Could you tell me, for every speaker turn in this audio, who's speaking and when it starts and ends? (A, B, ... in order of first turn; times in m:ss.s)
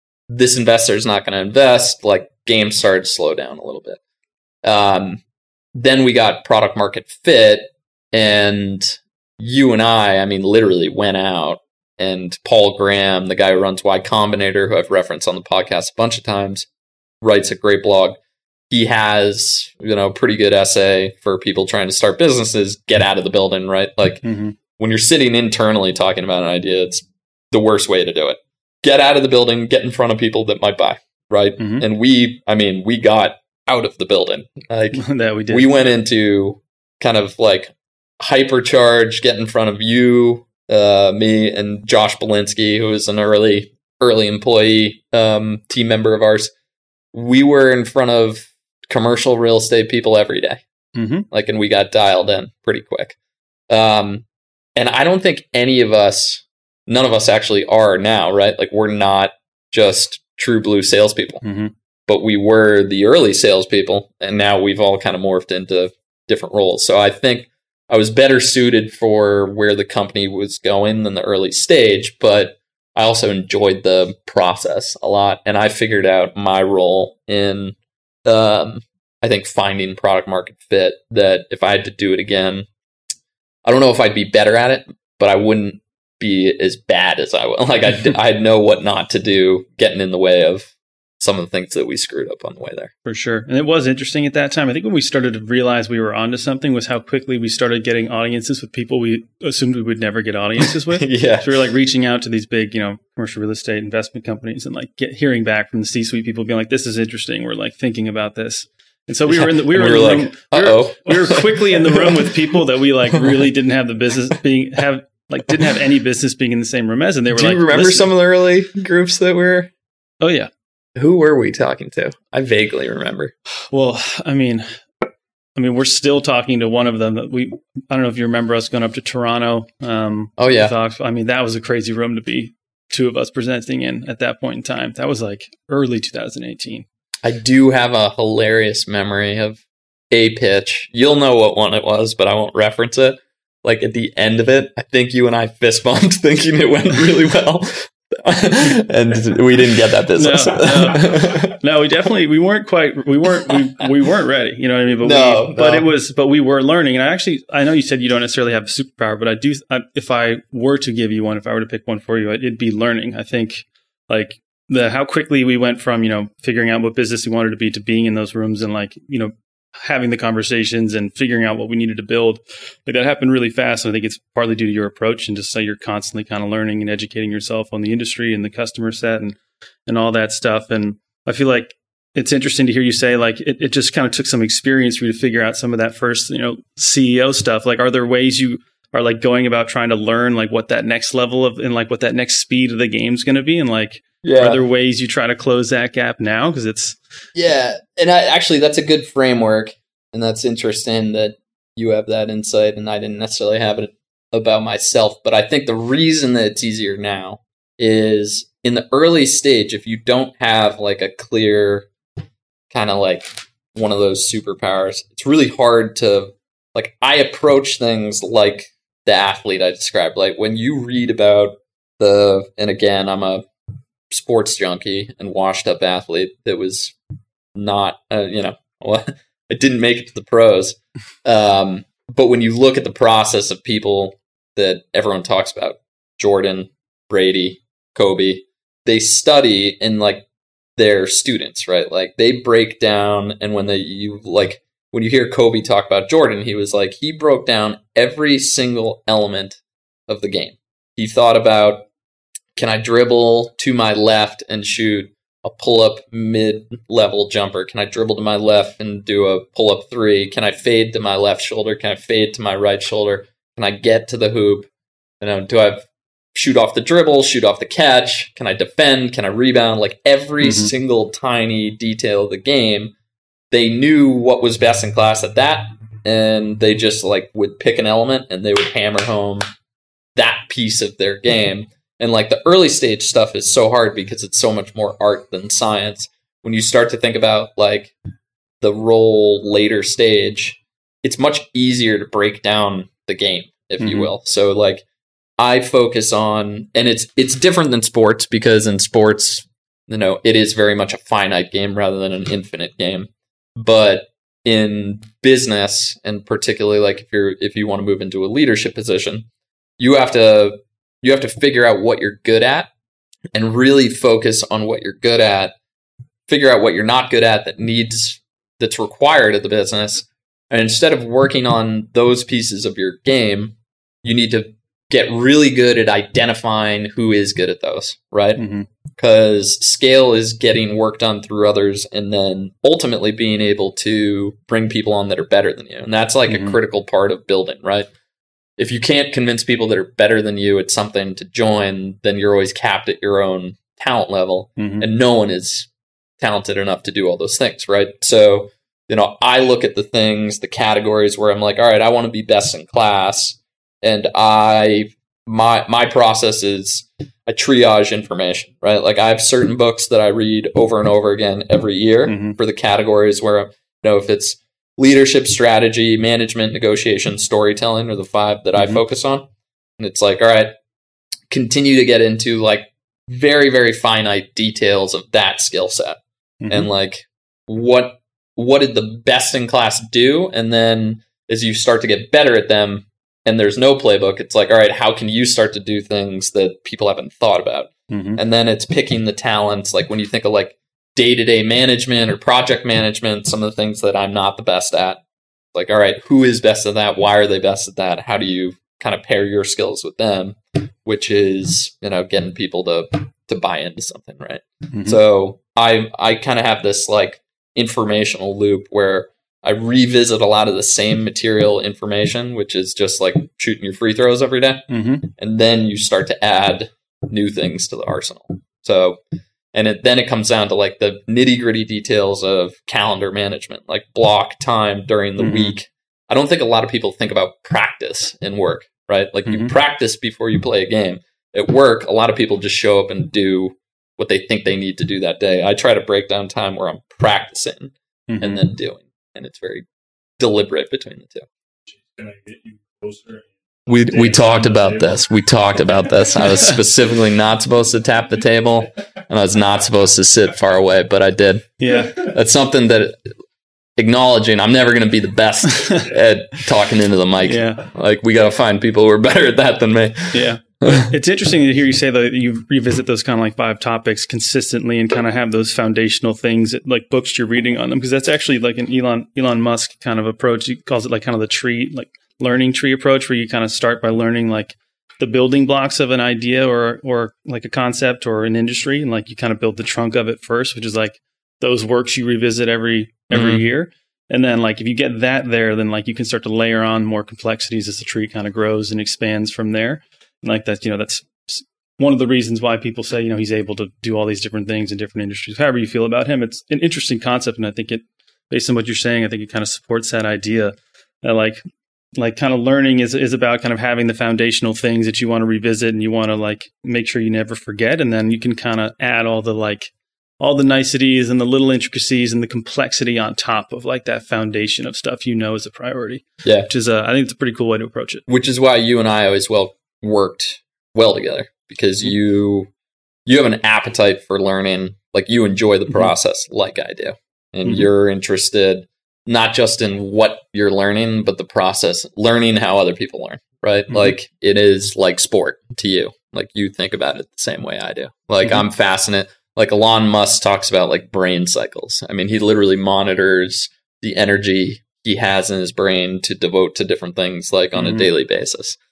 0:00.3-0:04.0 A
0:04.6-0:05.2 A
0:05.7-0:16.7 A
0:17.2-0:18.2 A
0:18.7-0:24.2 A
0:24.2-0:24.6 B
0:24.8-0:46.5 A
0:31.6-0:31.8 B
0:34.9-0:35.7 B
0:47.1-0:50.6 A
0:51.0-0:51.3 B
0:51.3-0:53.2 A
0:53.7-0:54.2 A
0:54.8-1:01.4 A
1:01.4-1:01.7 B
1:02.1-1:22.7 A
1:23.7-1:32.9 A
1:33.0-1:58.1 B
1:40.9-1:41.5 A
1:49.3-1:52.3 A
1:57.3-1:59.7 A
2:00.2-2:00.5 B
2:01.0-2:03.3 A
2:03.7-2:04.7 B
2:05.6-2:16.9 B
2:10.4-2:10.7 A
2:17.2-2:31.6 A
2:30.1-3:17.0 B
2:35.0-2:35.9 A
3:14.2-3:14.6 A
3:17.4-3:31.9 A
3:32.7-3:43.5 A
3:44.1-3:47.0 A
3:47.6-4:00.2 A
4:00.8-4:11.9 A
4:12.6-4:24.7 A
4:25.2-4:32.9 A
4:30.4-4:30.7 B
4:33.5-4:39.4 A
4:40.2-4:47.9 A
4:48.6-4:54.8 A
4:53.8-4:54.1 B
4:55.4-5:09.3 A
5:09.8-5:12.7 A
5:13.3-5:15.5 A
5:16.3-5:28.4 A
5:28.4-5:28.7 B
5:29.0-5:37.9 A
5:36.3-5:36.6 B
5:38.6-5:45.7 A
5:44.6-5:44.9 B
5:46.2-6:09.3 A
6:02.0-6:02.4 B
6:09.8-6:10.6 A
6:11.3-6:35.0 A
6:16.4-6:16.7 B
6:27.9-6:28.2 B
6:35.5-6:59.0 A
6:44.7-6:45.0 B
6:54.7-6:55.1 B
6:59.5-7:19.6 A
7:05.2-7:05.6 B
7:09.3-7:09.5 B
7:18.1-7:18.4 B
7:20.2-7:21.3 A
7:21.7-7:26.5 C
7:23.7-7:33.0 A
7:31.6-7:32.1 B
7:33.8-7:40.9 A
7:35.5-7:35.9 B
7:37.2-7:37.7 B
7:40.1-8:21.4 B
8:03.1-8:03.4 A
8:22.0-8:38.0 B
8:38.1-8:42.5 A
8:43.0-9:08.6 A
8:53.7-8:54.0 B
9:07.6-9:07.9 B